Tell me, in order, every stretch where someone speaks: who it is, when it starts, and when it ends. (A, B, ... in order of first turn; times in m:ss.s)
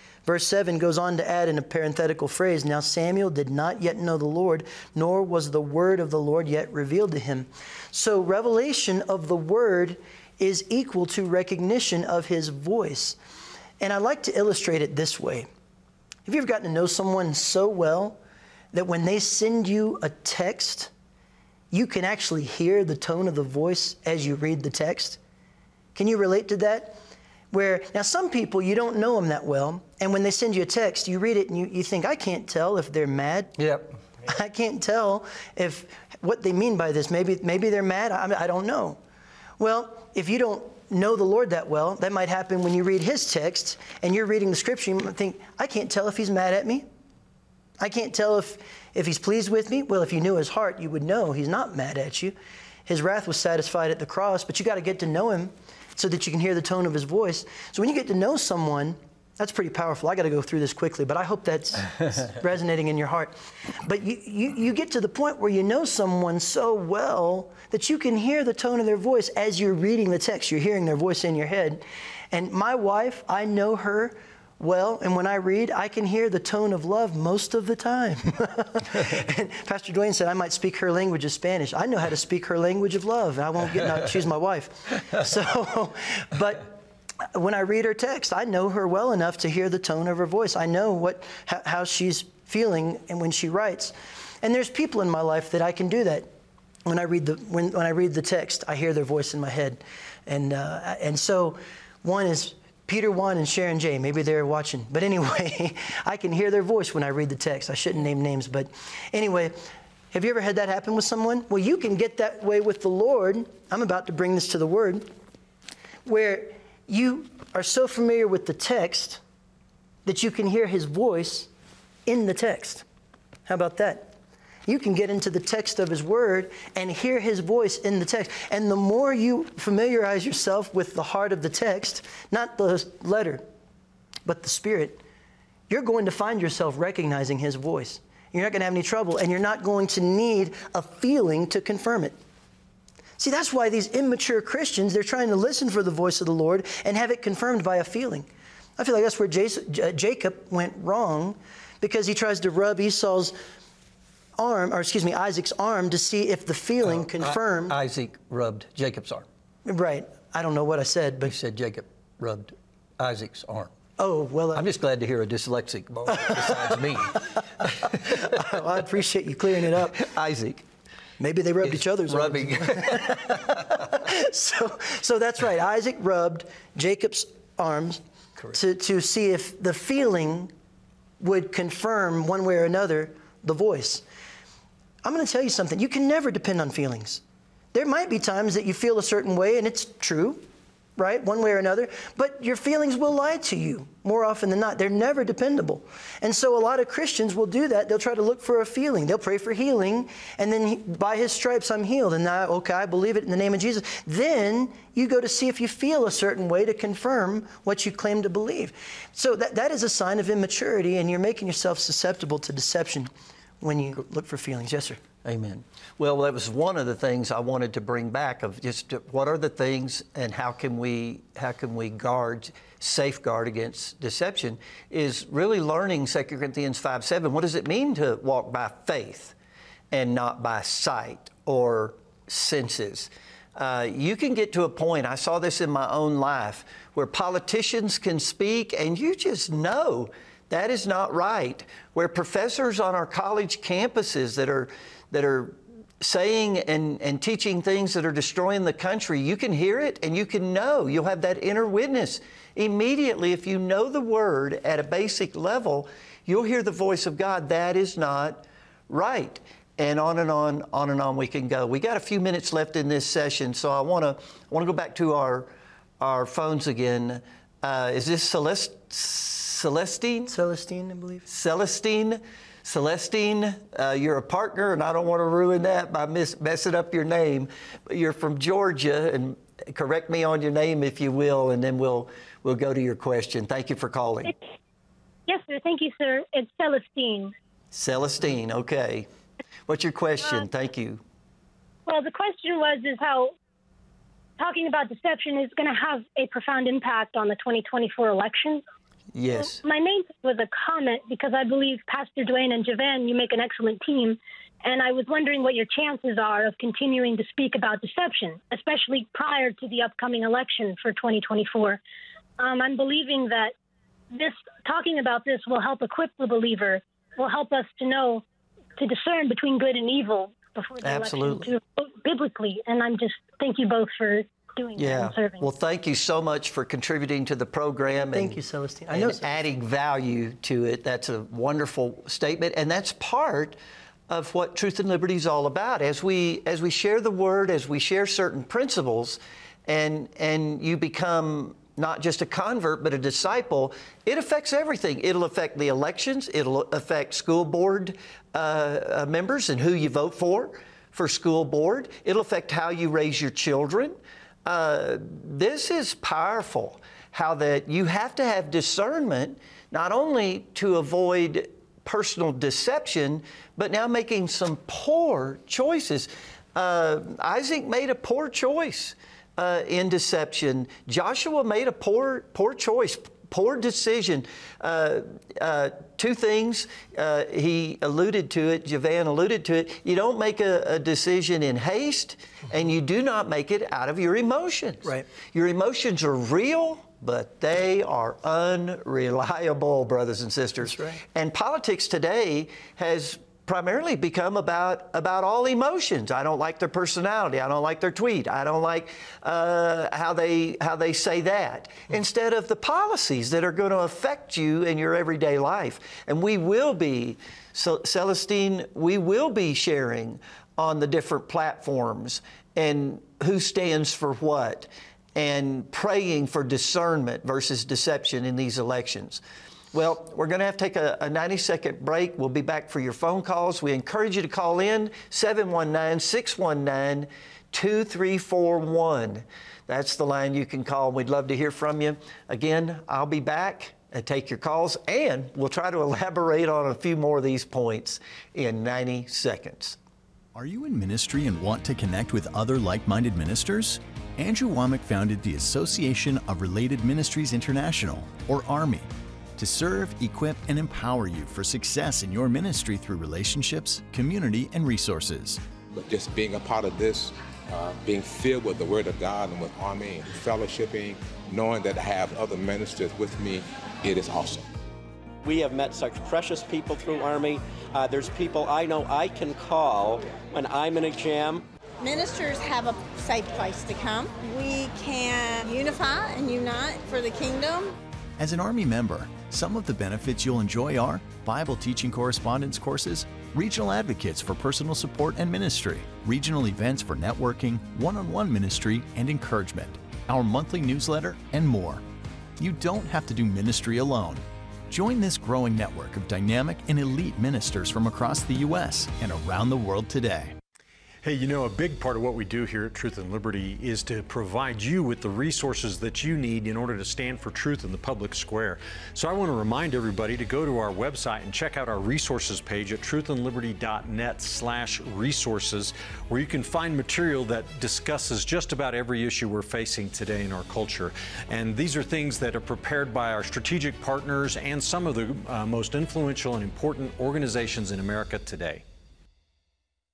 0:00.3-0:13.2 A
0:13.8-0:15.5 A
0:16.3-0:18.2 A
0:18.7-0:20.9 A
0:21.7-0:25.2 A
0:26.0-0:27.0 A
0:27.5-0:33.6 A
0:33.6-0:33.9 B
0:34.3-0:39.0 A
0:39.6-0:46.9 A
0:47.8-0:52.4 A
0:52.9-1:26.8 A
1:27.3-1:36.3 A
1:36.9-1:55.1 A
1:56.0-1:59.2 A
2:00.0-2:01.5 A
2:02.1-2:02.8 A
2:03.5-2:04.2 A
2:04.7-2:13.4 A
2:14.2-2:15.0 A
2:15.7-2:22.2 A
2:23.2-2:33.4 A
2:34.4-2:37.8 A
2:36.8-2:39.3 B
2:39.7-2:41.3 A
2:41.2-2:43.7 B
2:44.0-2:44.6 A
2:44.6-2:48.4 B
2:46.1-2:46.8 A
2:47.8-2:50.1 A
2:49.7-2:50.6 B
2:51.2-2:58.0 A
2:51.6-2:53.7 B
2:58.5-3:00.5 A
3:01.2-3:04.0 A
3:05.0-3:07.2 A
3:07.7-3:10.4 A
3:11.0-3:33.1 A
3:33.6-3:35.0 A
3:35.2-3:49.3 B
3:49.9-4:30.3 B
4:30.3-4:31.2 A
4:31.3-4:44.3 B
4:45.3-4:47.3 C
4:47.7-4:49.1 B
4:49.7-4:51.0 B
4:51.9-4:53.3 C
4:54.4-4:58.6 C
4:59.1-4:59.6 B
4:59.3-5:11.8 C
5:12.4-5:13.5 C
5:14.1-5:18.2 C
5:18.8-5:25.5 C
5:20.8-5:21.5 B
5:24.8-5:28.4 B
5:28.1-5:29.4 A
5:28.9-5:33.6 B
5:34.1-6:59.2 B
6:30.6-6:31.0 A
6:59.7-7:19.8 B
7:20.3-7:35.4 D
7:35.7-7:44.4 E
7:45.2-7:51.4 F
7:51.8-7:57.8 G
7:58.2-8:11.8 D
8:12.4-8:20.4 D
8:21.0-8:48.6 H